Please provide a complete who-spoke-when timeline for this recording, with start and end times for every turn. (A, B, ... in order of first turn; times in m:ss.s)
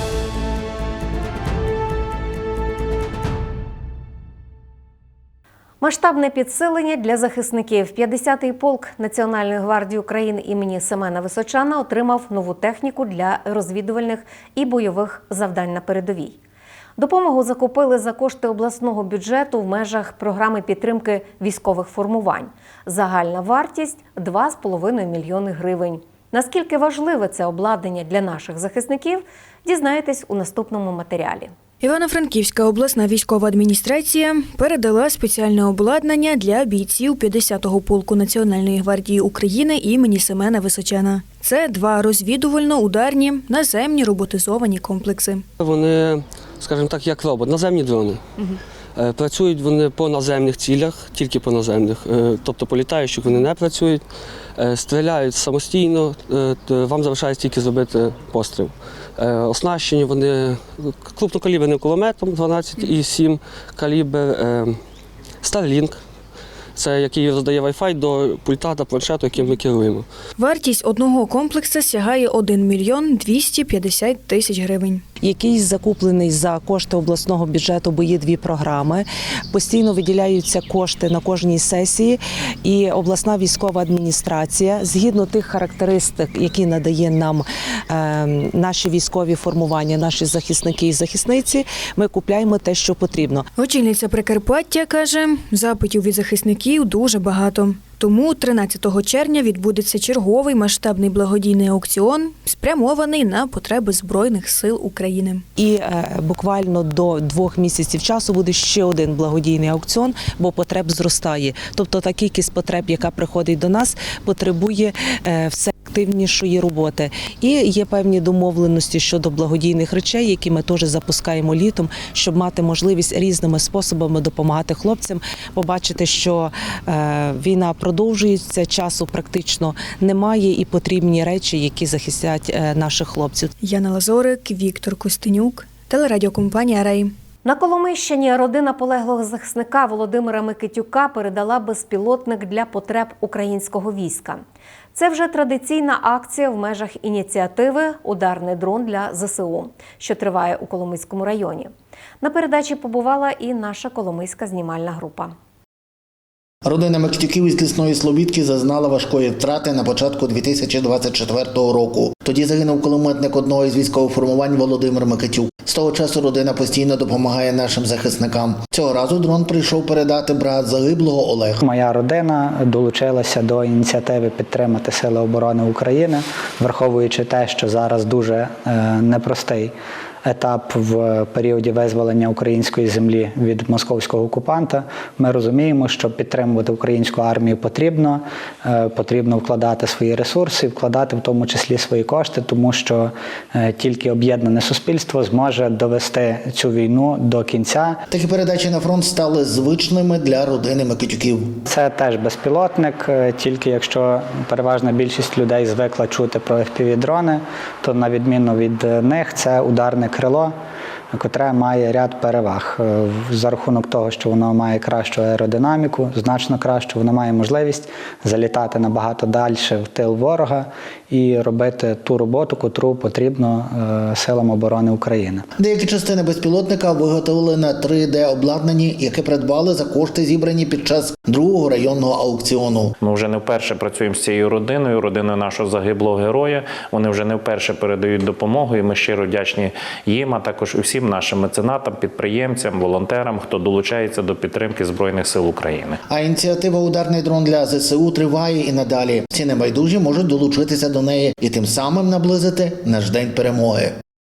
0:05.8-0:16.4 A
0:17.0-0:31.5 A
0:31.8-0:45.4 B
0:45.6-0:54.0 C
0:54.6-1:04.8 C
1:05.4-1:06.0 C
1:06.7-1:10.0 C
1:10.4-1:15.0 B
1:15.2-1:33.4 D
1:33.6-1:45.4 B
1:45.6-2:13.5 D
2:13.6-2:17.1 B
2:17.4-2:24.4 A
2:24.9-2:35.3 A
2:36.6-2:51.6 E
2:51.6-2:59.7 F
3:00.2-3:18.0 F
3:18.1-3:21.5 E
3:21.7-3:30.5 F
3:31.1-3:45.4 F
3:45.6-3:52.9 E
3:53.0-4:06.0 G
4:06.1-4:14.0 E